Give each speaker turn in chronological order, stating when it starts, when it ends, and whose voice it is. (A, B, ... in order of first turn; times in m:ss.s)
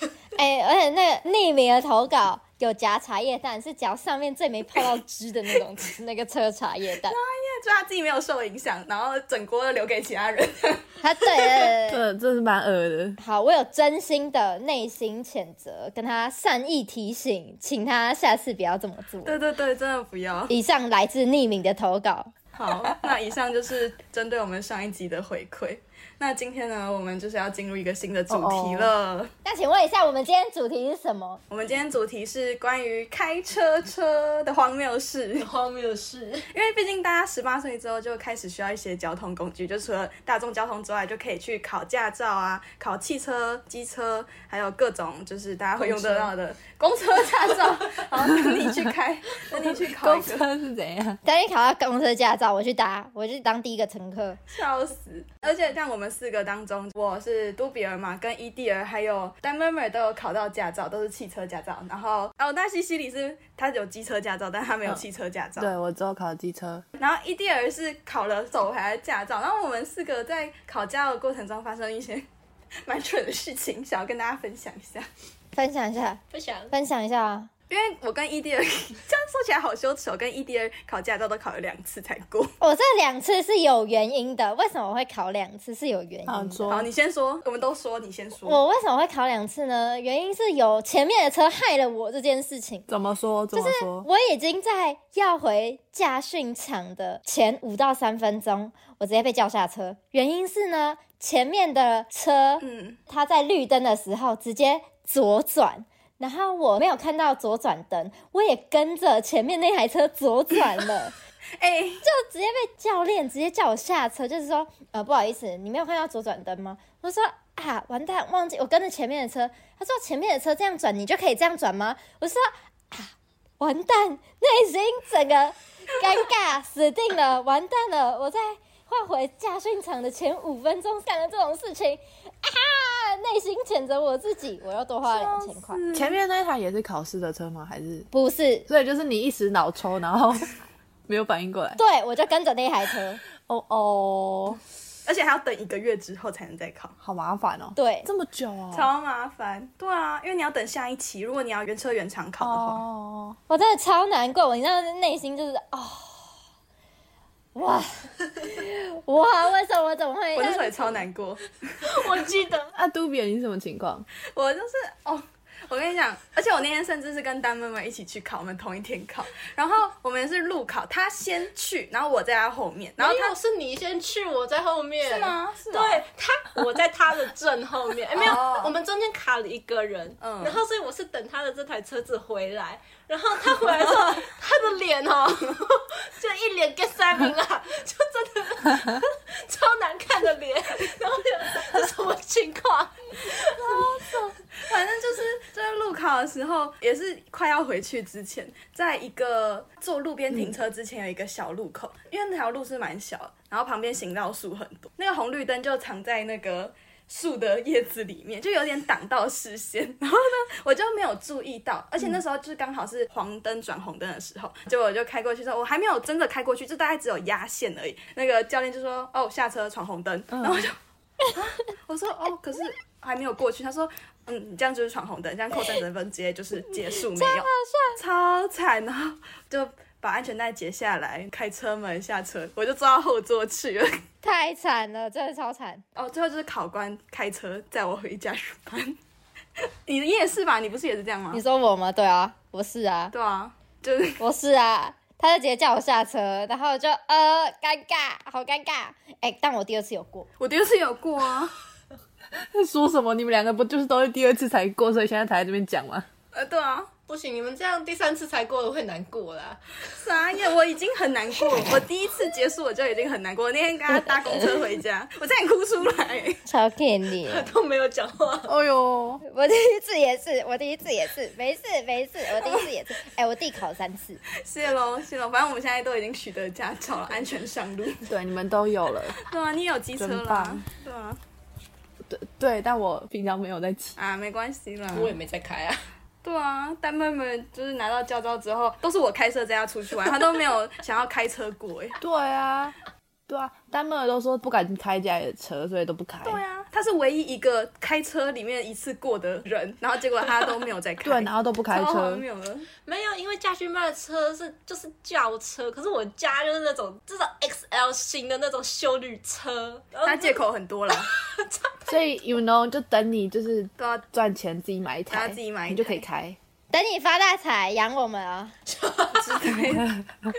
0:00.4-0:07.2 A
0:07.1-0:11.7 B
0:11.0-0:12.0 A
0:11.9-0:13.2 C
0:13.2-0:19.4 A
0:19.2-0:20.5 B
0:20.5-0:22.3 A
0:22.6-0:29.3 B
0:28.3-0:28.9 C
0:29.4-0:31.4 A
0:31.5-0:35.5 B
0:35.4-0:36.5 D
0:36.5-0:50.5 B
0:45.8-0:46.3 C
0:48.2-0:48.9 C
0:49.5-0:51.2 C
0:51.2-0:54.4 A
0:54.5-1:05.7 B
1:05.6-1:06.8 C
1:07.0-1:12.3 B
1:12.9-1:15.1 B
1:15.6-1:17.5 A
1:16.3-1:16.7 D
1:17.7-1:22.6 B
1:22.6-1:26.7 A
1:26.3-1:26.9 C
1:26.7-1:28.6 B
1:28.4-1:32.9 A
1:32.9-1:34.1 C
1:33.5-1:51.1 A
1:42.6-1:43.0 B
1:51.6-1:52.0 B
1:52.0-2:15.8 A
2:15.0-2:16.2 B
2:15.9-2:18.1 C
2:18.1-2:18.7 A
2:18.7-2:21.8 C
2:21.8-2:23.2 A
2:23.4-2:24.6 C
2:25.0-2:27.0 B
2:27.0-2:28.9 C
2:27.8-2:28.1 A
2:28.7-2:32.8 B
2:32.4-2:33.4 C
2:33.5-2:36.3 A
2:37.6-2:40.9 A
2:40.4-2:42.1 B
2:41.8-2:42.7 D
2:42.7-2:44.1 C
2:44.3-2:53.4 B
2:53.0-3:13.9 D
2:55.0-2:56.0 B
2:58.2-2:58.7 B
3:00.2-3:00.6 B
3:13.5-3:40.8 B
3:40.3-3:40.7 C
3:41.3-3:54.0 B
3:47.1-3:48.0 A
3:54.2-3:55.8 A
3:56.0-3:59.0 B
3:59.9-4:01.4 B
4:01.3-4:03.1 A
4:03.1-4:04.2 B
4:04.2-4:10.3 A
4:10.4-4:11.5 B
4:12.4-4:16.1 C
4:16.3-4:16.9 B
4:17.1-4:19.6 D
4:20.0-4:26.4 B
4:26.5-4:27.5 A
4:27.2-4:28.5 D
4:28.5-4:29.2 C
4:29.2-4:34.2 A
4:34.4-4:38.1 B
4:38.1-4:39.2 C
4:39.2-4:41.2 B
4:40.0-4:40.6 C
4:42.1-4:44.0 C
4:44.0-4:45.2 B
4:44.9-4:45.9 D
4:46.2-4:52.0 B
4:52.0-4:52.8 C
4:53.3-4:56.4 C
4:56.2-5:02.7 B
5:01.0-5:02.2 C
5:02.9-5:12.0 D
5:10.0-5:11.1 B
5:11.9-5:16.4 C
5:13.8-5:14.0 B
5:15.1-5:16.0 B
5:16.7-5:18.6 A
5:18.7-5:19.5 D
5:19.1-5:20.0 B